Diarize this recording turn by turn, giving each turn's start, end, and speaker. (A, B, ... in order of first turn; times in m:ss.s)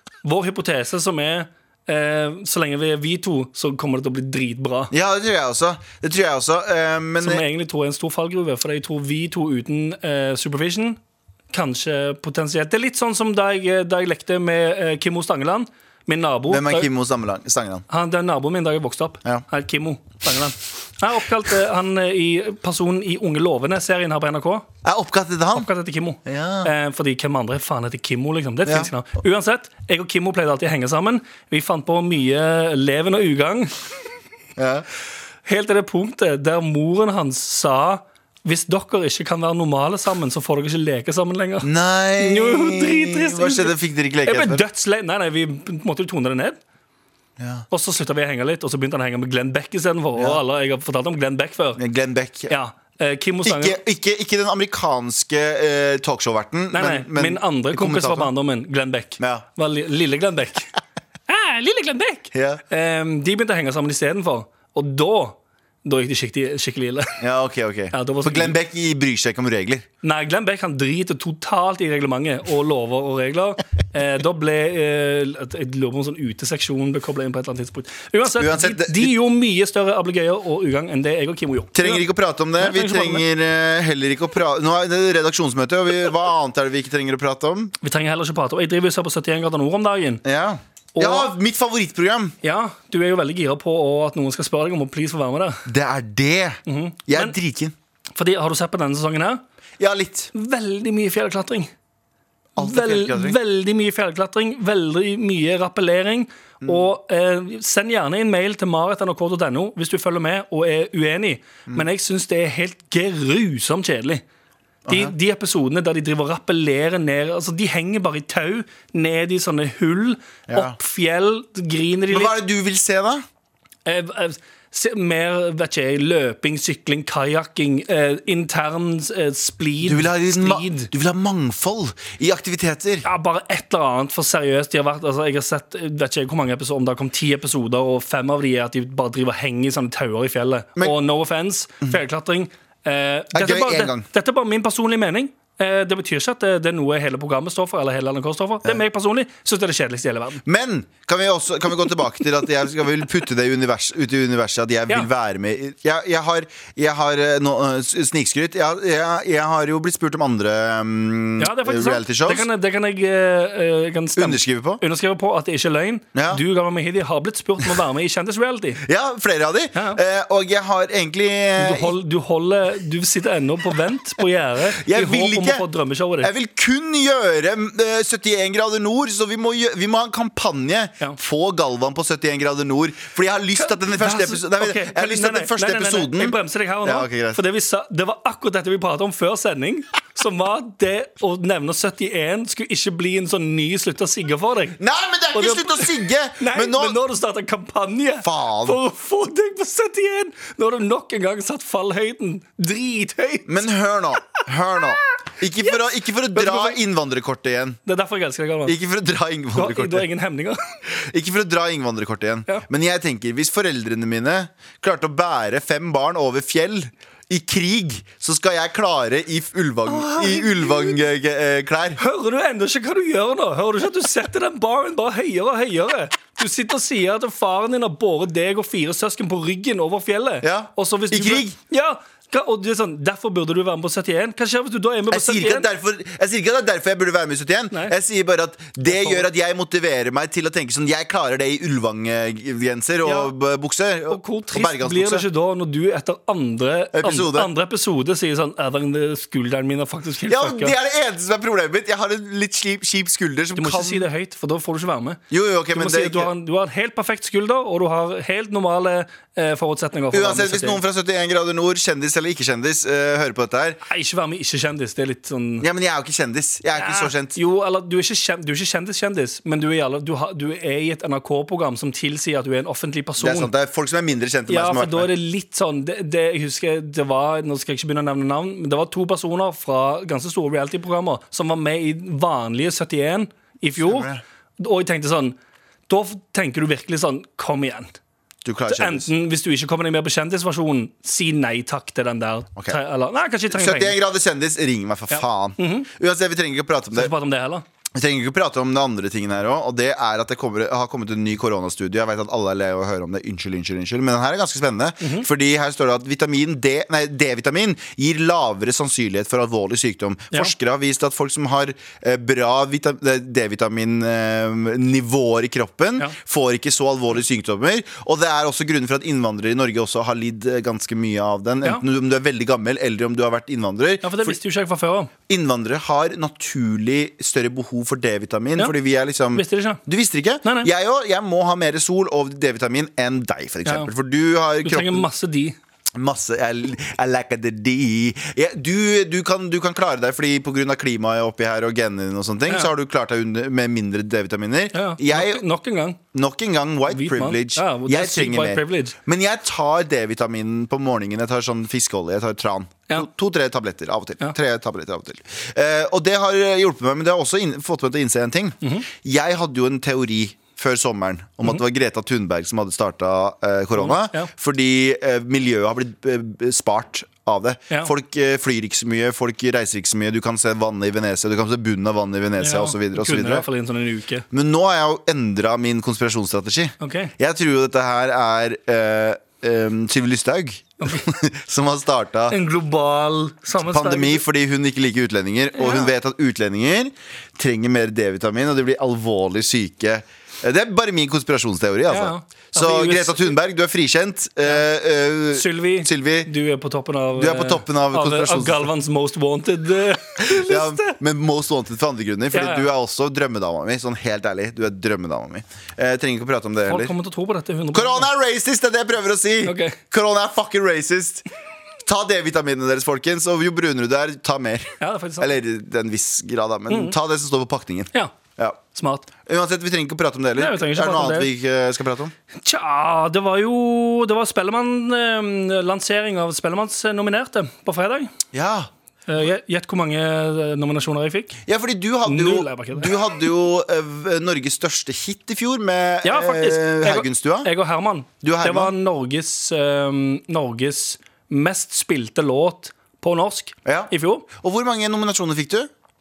0:00.2-0:04.9 A
0:04.9-0:07.4 B
0:07.2-0:11.0 A
0:11.5-0:16.9 A
0:16.5-0:17.8 B
0:17.9-0:24.7 A
0:24.8-0:25.7 B
0:25.5-0:33.7 A
0:26.2-0:26.7 B
0:28.6-0:28.9 B
0:34.6-0:34.9 B
0:35.5-0:46.6 A
0:41.6-0:44.6 B
0:47.4-0:47.7 B
0:47.7-0:51.8 A
0:50.2-0:50.4 B
0:51.8-0:52.5 B
0:52.5-0:53.8 A
0:53.4-0:58.3 B
0:56.7-1:00.7 A
0:59.2-0:59.5 B
1:01.3-1:07.2 A
1:02.3-1:02.6 B
1:07.2-1:09.9 B
1:07.9-1:08.6 A
1:10.0-1:22.1 A
1:18.3-1:19.2 B
1:21.8-1:27.7 B
1:22.6-1:23.3 A
1:27.8-1:30.2 A
1:30.2-1:32.4 B
1:31.0-1:31.3 A
1:32.4-1:35.6 A
1:35.7-1:37.8 B
1:36.7-1:37.4 A
1:38.2-1:39.4 A
1:39.8-1:40.3 B
1:40.3-1:41.7 A
1:42.6-1:43.4 B
1:42.6-1:54.2 A
1:46.6-1:46.9 B
1:54.9-1:55.1 B
1:54.9-2:02.4 A
2:00.5-2:00.8 B
2:02.1-2:03.2 B
2:03.9-2:10.9 A
2:09.8-2:13.0 B
2:13.0-2:30.4 A
2:23.3-2:24.1 B
2:30.4-2:42.5 B
2:41.4-2:48.8 A
2:44.2-2:44.8 B
2:46.2-2:46.4 B
2:48.8-2:51.9 B
2:49.8-2:50.0 A
2:51.6-2:56.3 A
2:54.7-2:55.6 B
2:56.2-3:07.4 B
3:03.6-3:14.8 A
3:14.8-3:17.0 B
3:15.3-3:23.6 A
3:18.2-3:18.8 B
3:23.5-3:27.8 B
3:26.3-3:26.8 A
3:27.9-3:28.8 A
3:28.6-3:30.1 B
3:29.6-3:30.6 A
3:30.9-3:42.0 B
3:39.9-3:41.0 A
3:42.0-3:55.7 A
3:50.4-3:51.6 B
3:55.1-4:05.3 B
3:58.9-3:59.3 A
4:03.0-4:03.3 A
4:04.1-4:10.7 A
4:06.9-4:07.5 B
4:10.3-4:14.1 B
4:13.6-4:15.2 A
4:15.3-4:16.3 B
4:15.7-4:20.8 A
4:20.1-4:23.8 B
4:23.9-4:25.7 A
4:25.6-4:27.4 B
4:26.8-4:33.5 A
4:33.2-4:35.1 B
4:34.5-4:45.4 A
4:43.8-4:44.2 B
4:45.9-4:48.0 A
4:48.4-4:49.1 B
4:48.7-4:54.0 A
4:53.5-4:57.1 B
4:55.1-4:55.9 A
4:56.9-4:57.6 A
4:58.0-5:24.4 B
5:05.0-5:05.3 A
5:24.0-5:25.1 A
5:25.3-5:35.1 B
5:29.3-5:29.8 A
5:30.4-5:30.7 A
5:33.6-5:33.9 A
5:34.6-5:35.6 A
5:36.0-5:45.4 B
5:44.7-5:46.0 A
5:46.1-6:13.5 B
5:46.9-5:49.0 A
5:58.6-5:58.9 A
6:03.8-6:04.3 A
6:12.4-6:14.2 A
6:14.3-6:22.4 B
6:16.8-6:17.1 A
6:22.3-6:24.2 A
6:23.6-6:36.3 B
6:25.6-6:25.9 A
6:31.9-6:33.4 A
6:35.3-6:41.0 A
6:37.2-6:38.7 B
6:40.2-6:46.9 B
6:42.3-6:42.7 A
6:46.7-6:48.1 A
6:47.7-6:51.2 B
6:49.4-6:49.8 A
6:51.8-6:58.6 B
6:54.8-6:55.3 A
6:56.7-6:57.0 A
6:58.7-6:59.1 A
6:59.3-7:02.1 B
7:00.4-7:01.3 A
7:02.4-7:08.1 A
7:08.3-7:08.7 B
7:09.1-7:11.4 A
7:11.5-7:17.5 B
7:12.1-7:12.9 A
7:16.0-7:24.3 A
7:18.2-7:18.7 B
7:23.6-7:25.7 B